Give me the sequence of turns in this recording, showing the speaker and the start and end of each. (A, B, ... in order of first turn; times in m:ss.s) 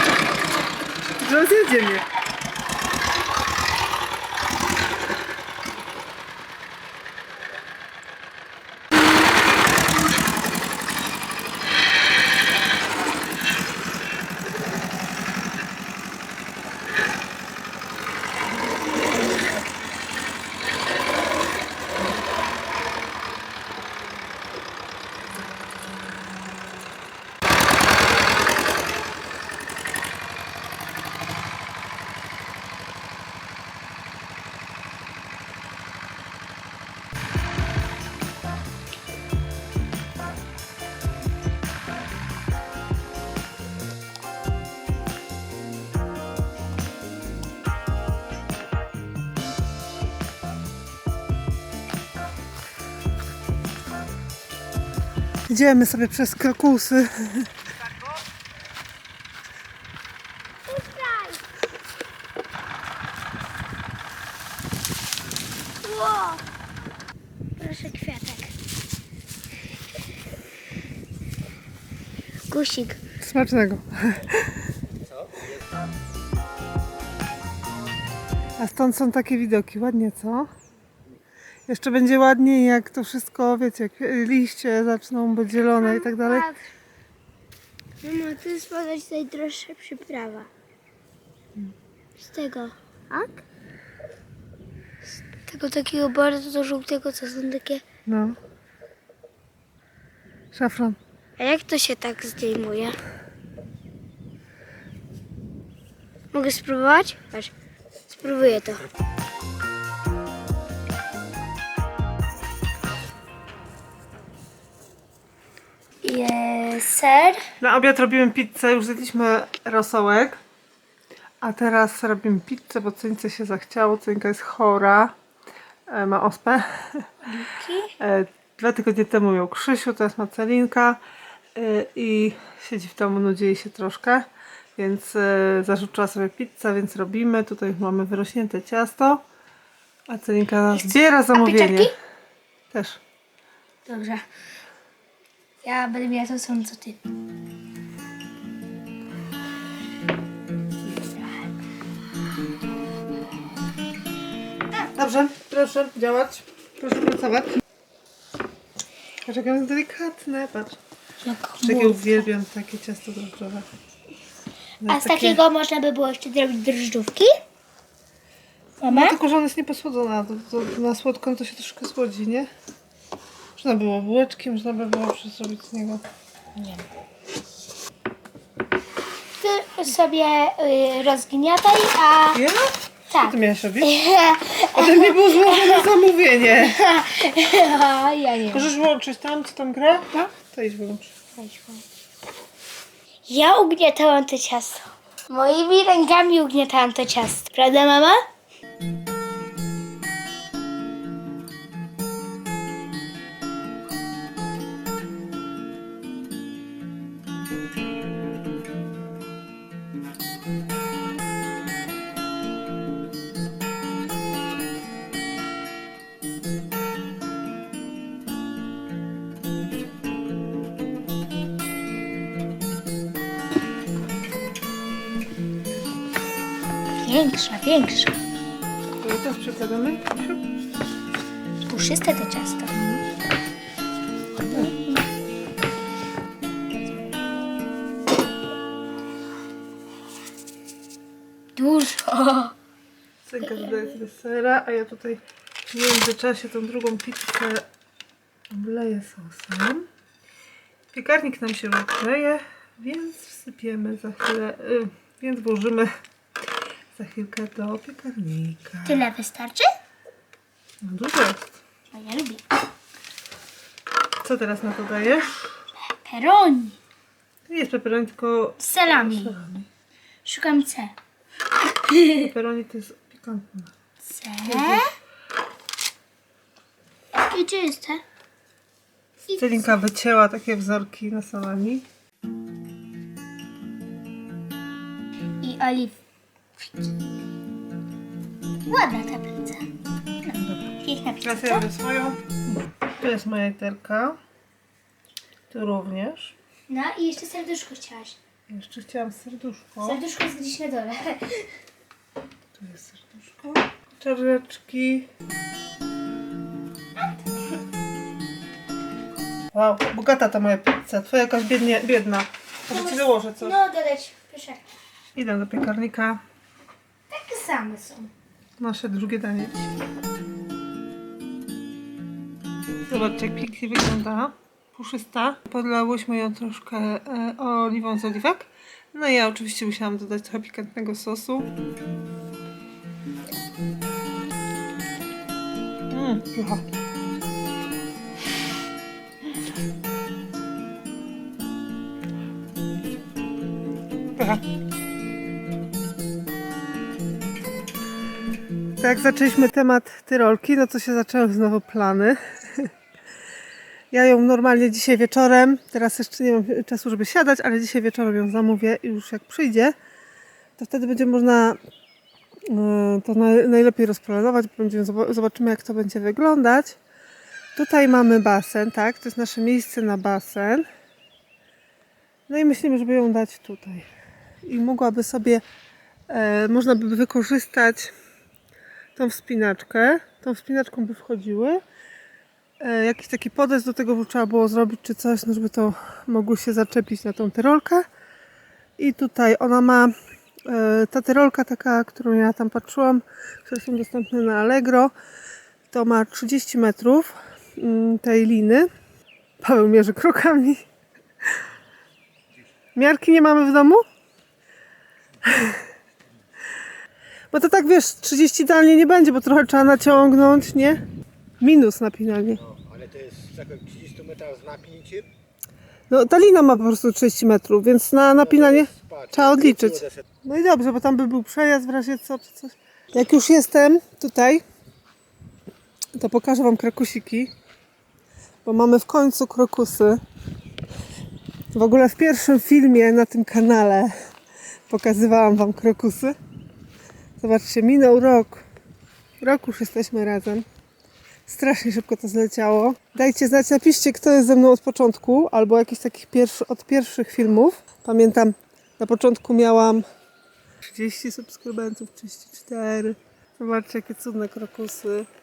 0:01.2-0:02.0 A
0:55.5-0:57.5 A
1:00.6-1:01.4 B
1:05.8-1:06.4 B
1:07.6-1:08.5 B
1:12.5-1:13.0 B
1:13.2-1:14.7 A
1:15.0-1:15.7 C
1:18.6-1:20.5 A
1:21.7-1:26.5 A
1:25.8-1:26.6 B
1:28.0-1:30.5 B
1:32.2-1:33.4 B
1:35.4-1:37.8 B
1:38.0-1:38.4 A
1:40.5-1:41.0 A
1:41.4-1:43.0 B
1:46.3-1:47.5 B
1:48.1-1:48.8 B
1:56.0-1:57.4 B
1:57.6-2:00.4 A
2:01.4-2:05.1 A
2:05.9-2:07.1 A
2:07.3-2:07.9 B
2:08.0-2:11.0 A
2:11.5-2:19.2 A
2:20.1-2:21.9 A
2:20.7-2:21.9 B
2:22.7-2:23.0 A
2:23.9-2:24.2 B
2:25.6-2:27.0 B
2:30.9-2:31.4 B
2:34.9-2:37.6 A
2:39.2-2:40.8 A
2:41.2-2:42.3 B
2:41.6-2:43.7 A
2:44.8-2:45.4 A
2:44.9-2:47.3 B
2:48.8-2:49.2 B
2:48.9-2:52.5 A
2:53.6-2:56.0 A
2:59.4-3:02.4 B
3:02.3-3:03.9 A
3:03.1-3:05.8 B
3:04.7-3:06.8 A
3:06.6-3:08.7 B
3:08.5-3:11.2 A
3:11.4-3:11.8 B
3:13.3-3:18.2 B
3:47.0-3:48.2 B
3:49.0-3:50.3 A
3:51.6-3:52.7 B
3:52.7-3:53.0 A
3:54.4-3:54.7 A
3:54.5-3:55.0 B
4:01.6-4:02.5 B
4:03.2-4:07.7 A
4:03.5-4:03.9 B
4:08.5-4:09.8 A
4:10.9-4:15.9 A
4:16.9-4:19.0 A
4:18.8-4:19.7 B
4:20.8-4:21.6 A
4:21.9-4:22.4 B
4:24.2-4:25.4 A
4:25.9-4:26.8 B
4:27.5-4:29.7 A
4:28.6-4:29.3 B
4:30.2-4:30.9 B
4:31.7-4:32.3 B
4:32.2-4:33.7 A
4:34.0-4:34.9 B
4:34.4-4:34.9 A
4:37.1-4:38.0 B
4:39.3-4:39.8 B
4:39.4-4:41.8 A
4:45.4-4:46.0 B
4:48.7-4:49.7 B
4:50.2-4:51.6 B
4:50.4-4:52.4 A
4:53.0-4:54.2 A
4:55.5-4:56.4 A
4:56.7-4:58.2 B
4:58.5-5:00.0 A
4:59.8-5:01.5 B
5:02.6-5:05.1 A
5:09.5-5:13.6 A
5:12.7-5:14.6 B
5:15.1-5:16.2 A
5:17.1-5:18.1 B
5:18.6-5:19.6 A
5:22.9-5:31.5 A
5:35.9-5:36.6 A
5:44.2-5:44.4 A
5:48.8-5:52.7 A
5:53.9-5:59.7 A
6:00.6-6:01.6 A
6:02.5-6:06.8 A
6:07.6-6:10.7 A
6:12.3-6:13.9 A
6:14.4-6:15.4 A
6:16.1-6:17.9 A
6:19.0-6:21.6 A
6:22.6-6:27.8 A
6:28.8-6:29.9 A
6:30.4-6:34.9 A
6:35.7-6:38.7 A
6:39.4-6:40.6 A
6:42.7-6:43.8 A
6:45.2-6:45.6 A
6:47.3-6:50.8 A
6:51.4-6:52.4 A
6:52.4-6:55.1 C
6:55.9-7:04.4 A
6:58.2-7:00.0 C
7:06.0-7:07.3 A
7:08.4-7:10.0 A
7:11.5-7:14.1 A
7:14.7-7:16.1 A
7:17.2-7:18.4 A
7:19.2-7:20.4 A
7:21.2-7:29.8 A
7:30.6-7:35.1 A